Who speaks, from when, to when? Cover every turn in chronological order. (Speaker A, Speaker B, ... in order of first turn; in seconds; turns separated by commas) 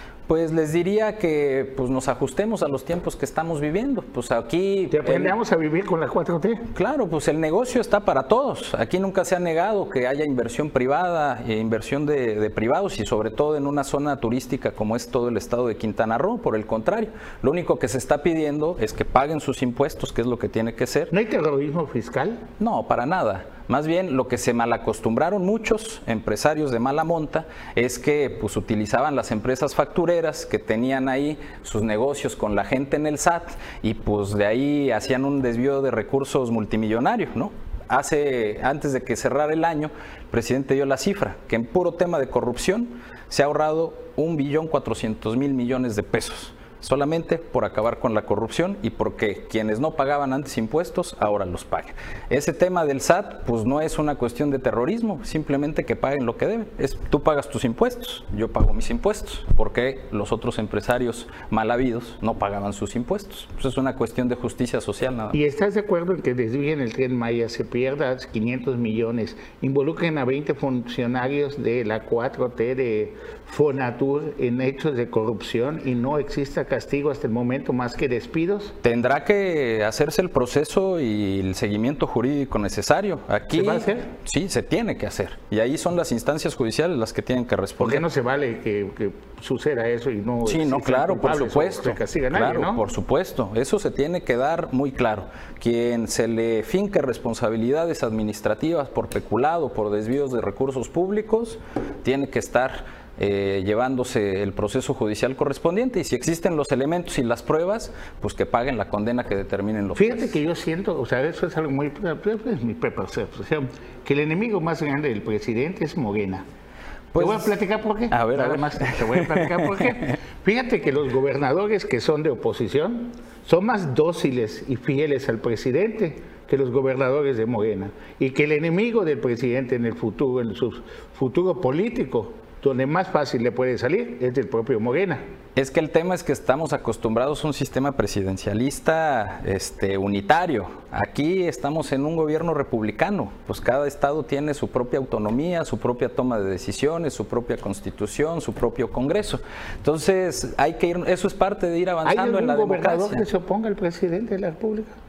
Speaker A: 0.3-5.3, Speaker B: 4.9-6.7, Speaker A: 6.7-21.1, Speaker B: 21.1-22.4, Speaker A: 22.6-65.4, Speaker B: 65.3-78.8, Speaker A: 78.8-88.0, Speaker B: 83.5-84.1, Speaker B: 87.8-92.8, Speaker A: 90.4-110.3, Speaker B: 110.0-116.4, Speaker A: 117.1-117.5, Speaker B: 117.2-135.2, Speaker A: 118.1-120.2, Speaker A: 135.6-153.2, Speaker B: 152.0-155.0